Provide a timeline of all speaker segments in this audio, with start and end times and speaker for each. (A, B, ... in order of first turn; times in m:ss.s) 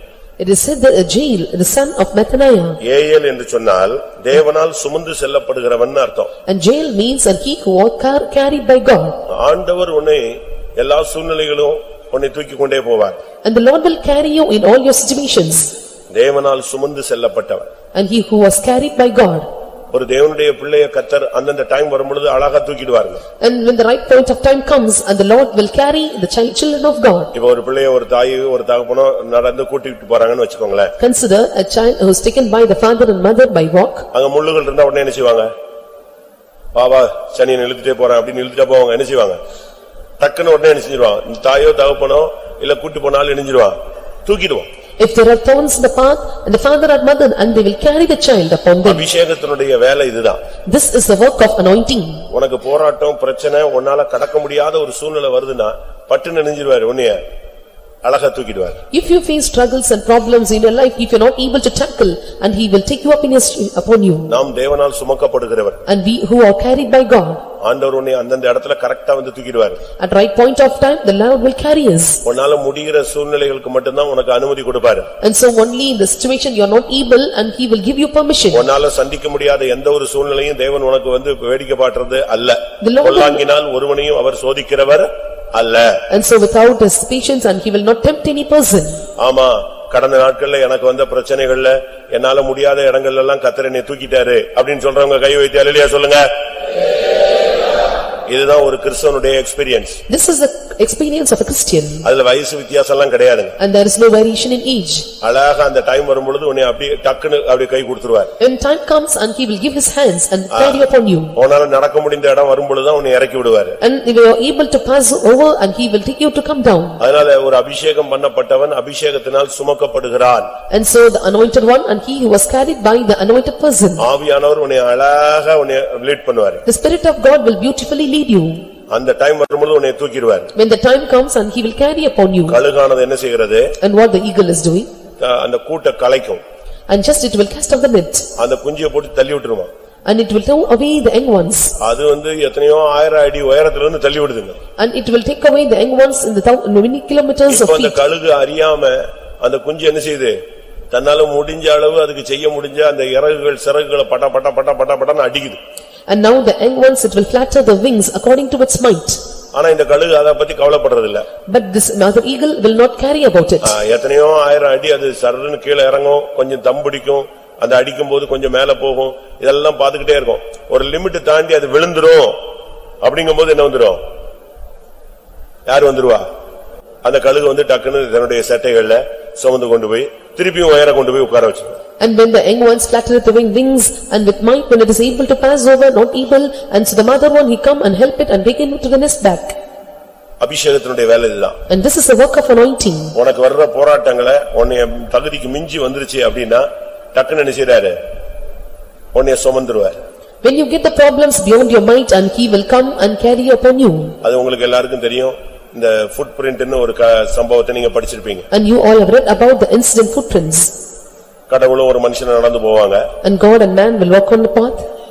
0:00.4-0:02.8 A
0:02.8-0:06.3 B
0:06.5-0:09.2 A
0:09.3-0:13.2 B
0:13.4-0:15.7 A
0:16.1-0:17.7 B
0:17.9-0:19.5 A
0:19.9-0:23.2 B
0:23.4-0:27.3 A
0:27.3-0:30.9 B
0:31.0-0:34.1 A
0:34.1-0:35.5 B
0:36.7-0:39.4 B
0:40.2-0:44.7 B
0:45.0-0:49.0 A
0:48.8-0:50.4 B
0:50.7-0:52.3 A
0:52.3-0:57.2 B
0:58.0-0:58.8 B
0:58.9-1:04.4 A
1:04.3-1:05.8 B
1:05.9-1:07.4 A
1:07.6-1:09.8 B
1:10.0-1:12.2 A
1:12.2-1:15.1 B
1:15.2-1:18.7 A
1:18.5-1:26.0 B
1:22.8-1:23.4 A
1:26.1-1:29.0 A
1:29.2-1:36.3 B
1:38.3-1:40.0 B
1:40.1-1:42.1 A
1:42.0-1:43.6 B
1:43.6-1:45.1 A
1:45.2-1:48.3 B
1:48.4-1:51.3 A
1:50.5-1:53.8 B
1:53.8-1:57.0 A
1:57.0-2:00.5 B
2:00.7-2:04.1 A
2:04.0-2:06.6 B
2:06.6-2:08.6 A
2:08.9-2:10.5 B
2:10.5-2:12.6 A
2:12.5-2:13.7 B
2:13.8-2:14.9 A
2:15.2-2:16.4 B
2:16.9-2:18.3 A
2:18.4-2:19.7 B
2:20.0-2:21.7 A
2:21.8-2:24.6 B
2:24.8-2:28.0 A
2:27.5-2:30.4 B
2:30.9-2:35.6 B
2:36.1-2:39.2 A
2:39.5-2:41.3 B
2:41.5-2:43.7 A
2:43.6-2:52.4 B
2:53.0-2:54.0 B
2:55.6-2:56.3 B
2:57.0-3:01.8 B
3:02.0-3:09.6 A
3:10.4-3:11.6 B
3:11.7-3:13.2 A
3:13.1-3:18.0 B
3:19.1-3:20.0 B
3:20.4-3:24.1 A
3:24.2-3:28.4 B
3:28.5-3:30.7 A
3:31.5-3:33.1 B
3:33.2-3:34.8 A